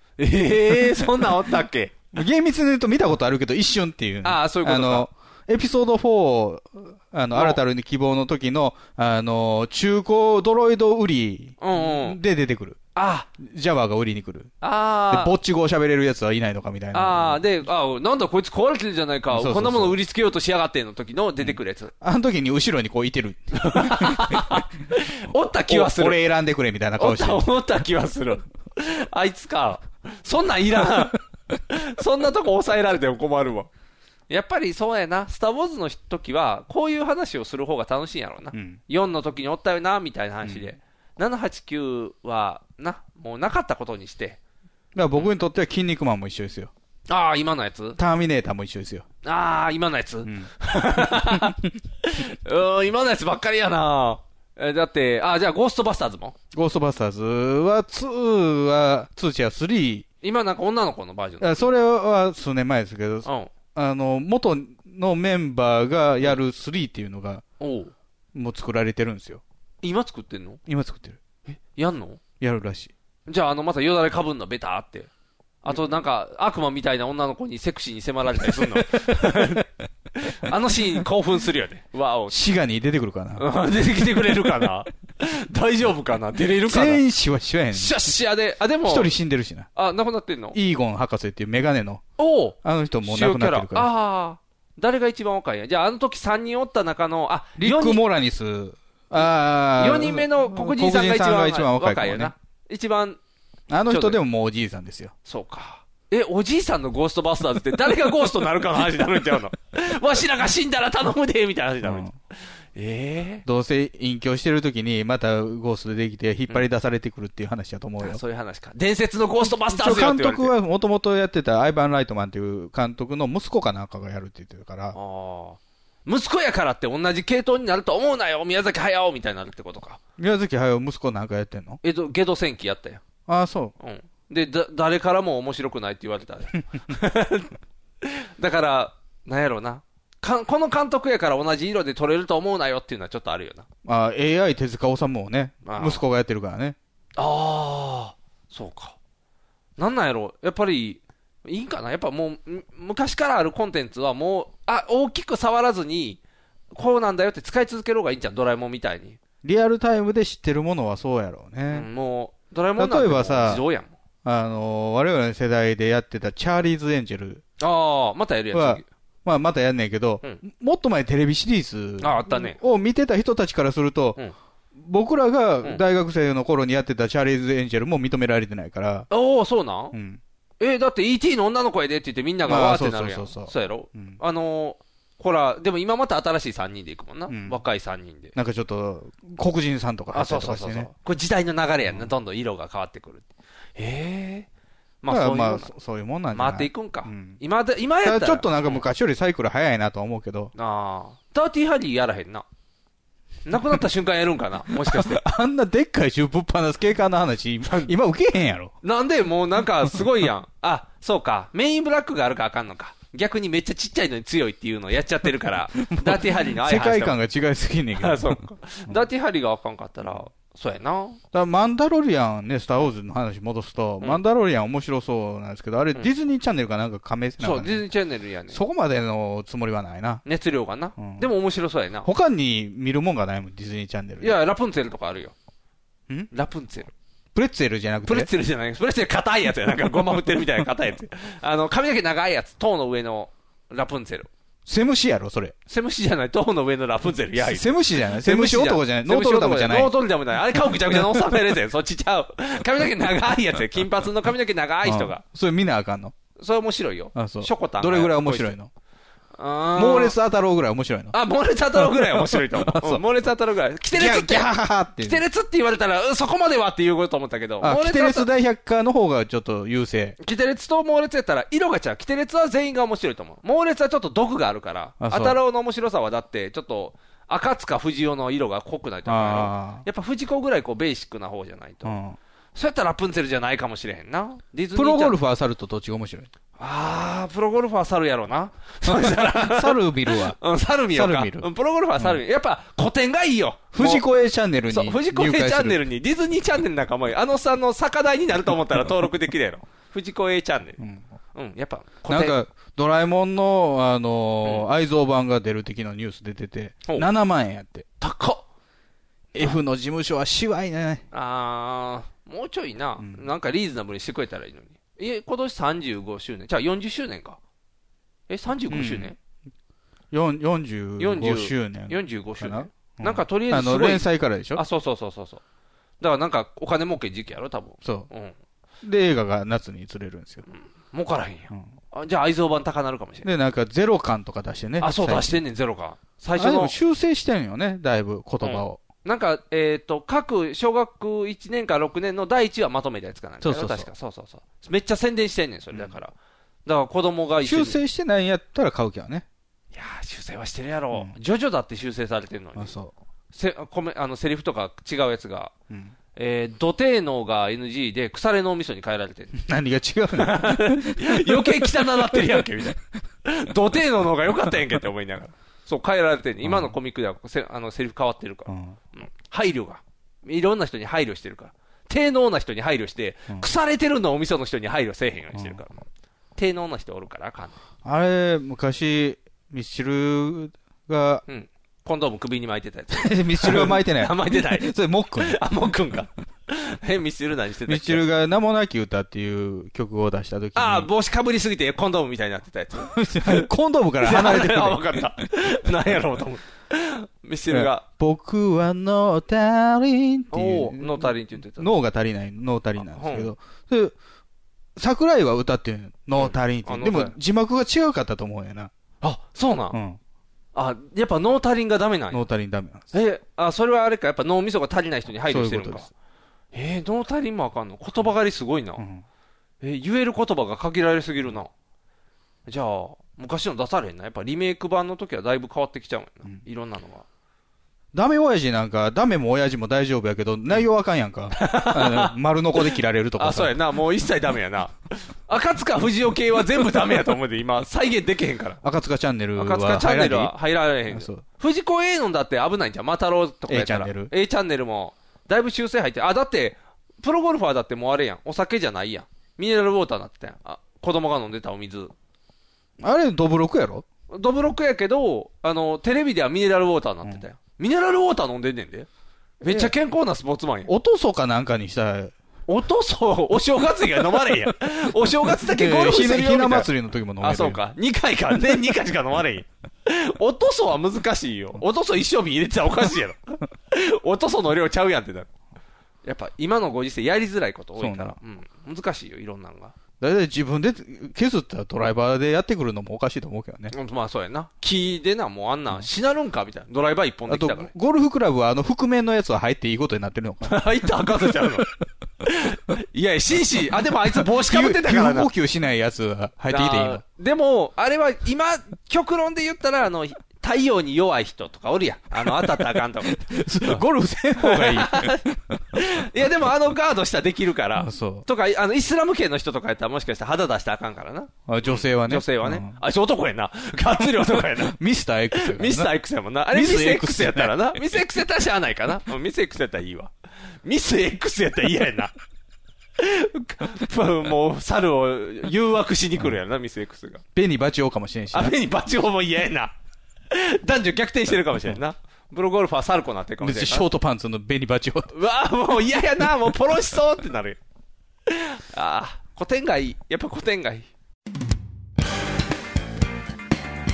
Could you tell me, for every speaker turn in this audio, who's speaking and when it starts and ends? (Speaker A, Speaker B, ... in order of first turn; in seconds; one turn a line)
Speaker A: 0.2-1.9
Speaker B: 2.1-12.8
Speaker A: 4.2-5.1
Speaker A: 7.3-7.6
Speaker A: 11.6-12.2
Speaker A: 12.9-13.3
Speaker B: 13.4-14.5
Speaker A: 14.6-15.3
Speaker B: 15.1-17.4
Speaker A: 16.9-21.9
Speaker B: 19.3-20.0
Speaker B: 21.4-24.6
Speaker A: 23.6-26.2
Speaker B: 25.7-27.4
Speaker A: 27.0-33.7
Speaker A: 34.3-44.4
Speaker B: 38.5-38.8
Speaker B: 40.4-40.7
Speaker B: 44.9-46.7
Speaker A: 47.1-48.0
Speaker B: 48.0-49.0
Speaker A: 49.2-56.4
Speaker B: 50.2-50.5
Speaker B: 51.1-51.5
Speaker B: 56.5-60.0
Speaker A: 60.2-61.7
Speaker B: 61.4-67.4
Speaker A: 63.2-63.5
Speaker A: 67.6-67.9
Speaker B: 68.3-69.4
Speaker A: 69.8-70.6
Speaker B: 70.7-71.2
Speaker A: 71.5-72.2
Speaker B: 72.4-72.9
Speaker A: 73.3-75.1
Speaker A: 75.6-79.7
Speaker A: 80.2-82.4
Speaker B: 82.3-83.4
Speaker A: 83.4-87.0
Speaker B: 86.7-88.0
Speaker A: 87.7-89.1
Speaker B: 88.8-89.7
Speaker A: 89.7-90.6
Speaker B: 90.5-92.0
Speaker A: 92.2-98.0
Speaker B: 92.6-93.9
Speaker B: 97.6-102.3
Speaker A: 99.2-103.2
Speaker B: 103.7-105.1
Speaker A: 103.9-104.2
Speaker A: 105.2-112.1
Speaker B: 111.8-112.1
Speaker A: 112.8-113.4
Speaker B: 113.5-118.2
Speaker A: 118.0-120.5
Speaker B: 119.4-125.0
Speaker A: 124.9-130.0
Speaker B: 130.2-131.8
Speaker A: 131.8-133.0
Speaker B: 133.3-133.7
Speaker A: 133.8-143.7
Speaker B: 143.8-146.8
Speaker A: 145.6-146.0
Speaker A: 147.2-148.9
Speaker A: 149.8-156.2
Speaker A: 156.7-159.2
Speaker B: 159.4-161.9
Speaker A: 161.7-163.9
Speaker B: 162.8-163.6
Speaker B: 164.2-167.4
Speaker A: 167.6-168.9
Speaker B: 168.5-174.2
Speaker A: 172.0-172.6
Speaker B: 174.7-179.1
Speaker A: 179.1-179.9
Speaker B: 179.9-180.2
Speaker A: 180.6-188.3
Speaker B: 182.4-184.2
Speaker B: 187.3-187.6
Speaker B: 188.3-190.9
Speaker A: 190.1-193.2
Speaker B: 191.8-192.1
Speaker A: 193.8-194.5
Speaker A: 195.0-195.7
Speaker B: 195.1-197.4
Speaker A: 196.3-198.8
Speaker B: 198.0-200.5
Speaker A: 200.5-202.4
Speaker A: 203.4-205.2
Speaker B: 204.8-208.7
Speaker A: 207.6-207.9
Speaker A: 208.8-217.2
Speaker B: 215.9-219.0
Speaker A: 218.0-221.2
Speaker B: 221.3-227.8
Speaker A: 227.4-228.6
Speaker B: 228.5-230.2
Speaker A: 230.2-232.1
Speaker B: 231.0-231.3
Speaker B: 232.0-234.4
Speaker A: 234.2-235.3
Speaker A: 236.3-236.9
Speaker B: 237.3-238.3
Speaker A: 238.1-244.3
Speaker B: 244.7-245.5
Speaker A: 245.7-255.2
Speaker B: 247.4-249.9
Speaker B: 250.5-251.3
Speaker B: 254.8-256.1
Speaker A: 256.4-258.5
Speaker B: 257.1-258.7
Speaker A: 259.4-260.1
Speaker B: 259.8-261.1
Speaker A: 261.1-268.3
Speaker B: 261.8-263.0
Speaker B: 263.9-265.2
Speaker B: 267.6-270.2
Speaker A: 270.2-282.0
Speaker B: 275.0-275.4
Speaker B: 279.1-279.8
Speaker B: 281.8-282.2
Speaker A: 282.5-285.2
Speaker B: 284.7-286.3
Speaker A: 286.6-294.1
Speaker B: 288.9-290.4
Speaker B: 290.9-292.2
Speaker B: 293.7-295.8
Speaker A: 294.7-300.8
Speaker A: 301.3-302.4
Speaker B: 302.1-307.9
Speaker A: 308.0-308.4
Speaker B: 309.3-311.0
Speaker A: 311.1-317.4
Speaker B: 313.0-313.2
Speaker A: 318.3-319.1
Speaker B: 318.7-319.1
Speaker B: 320.1-324.6
Speaker A: 321.0-325.4
Speaker A: 326.0-328.3
Speaker B: 327.8-328.1
Speaker B: 328.8-330.4
Speaker A: 330.5-333.3
Speaker B: 333.2-335.4
Speaker A: 334.8-336.8
Speaker B: 336.4-338.8
Speaker A: 338.4-346.1
Speaker B: 343.4-343.9
Speaker A: 346.6-347.8
Speaker B: 347.4-349.2
Speaker A: 349.7-352.7
Speaker B: 352.6-352.9
Speaker A: 353.3-355.5
Speaker A: 356.1-359.4
Speaker B: 359.3-362.4
Speaker A: 360.2-375.8
Speaker B: 366.4-366.7
Speaker B: 368.5-368.8
Speaker B: 375.3-375.6
Speaker A: 376.4-377.6
Speaker B: 377.8-381.2
Speaker A: 381.3-388.0
Speaker B: 382.9-385.4
Speaker B: 387.6-390.9
Speaker A: 390.5-393.5
Speaker B: 392.8-395.1
Speaker A: 394.0-397.8
Speaker B: 397.5-403.9
Speaker A: 400.3-401.7
Speaker A: 402.8-403.3
Speaker B: 404.8-408.7
Speaker A: 406.2-407.1
Speaker A: 409.0-409.8
Speaker B: 409.7-410.0
Speaker A: 410.5-412.2
Speaker B: 412.1-412.9
Speaker A: 412.9-415.9
Speaker B: 415.2-415.9
Speaker A: 416.5-418.8
Speaker B: 418.8-419.0
Speaker A: 419.6-421.5
Speaker A: 422.5-427.0
Speaker B: 427.9-433.6
Speaker A: 431.3-434.8
Speaker A: 435.3-438.6
Speaker B: 438.6-440.4
Speaker A: 439.4-451.9
Speaker B: 440.9-441.2
Speaker B: 443.5-444.1
Speaker B: 452.8-453.8
Speaker A: 454.1-458.9
Speaker A: 459.4-460.7
Speaker B: 459.4-459.7
Speaker B: 460.7-462.1
Speaker A: 462.5-466.7
Speaker B: 465.4-467.6
Speaker A: 467.2-475.3
Speaker A: 476.0-479.7
Speaker B: 477.8-478.2
Speaker B: 480.0-483.7
Speaker A: 483.7-487.7
Speaker B: 487.3-490.8
Speaker A: 490.4-491.7
Speaker A: 492.2-495.3
Speaker B: 494.2-497.0
Speaker A: 496.5-503.8
Speaker B: 502.2-502.6
Speaker B: 503.1-505.6
Speaker A: 504.4-505.2
Speaker A: 505.7-514.8
Speaker B: 507.7-508.3
Speaker B: 511.5-512.8
Speaker B: 514.5-515.9
Speaker A: 515.3-520.1
Speaker B: 516.5-517.8
Speaker A: 520.6-522.1
Speaker A: 523.0-527.2
Speaker B: 527.3-528.5
Speaker A: 528.3-529.7
Speaker A: 530.3-533.9
Speaker B: 533.4-535.1
Speaker A: 535.1-537.6
Speaker A: 538.3-540.9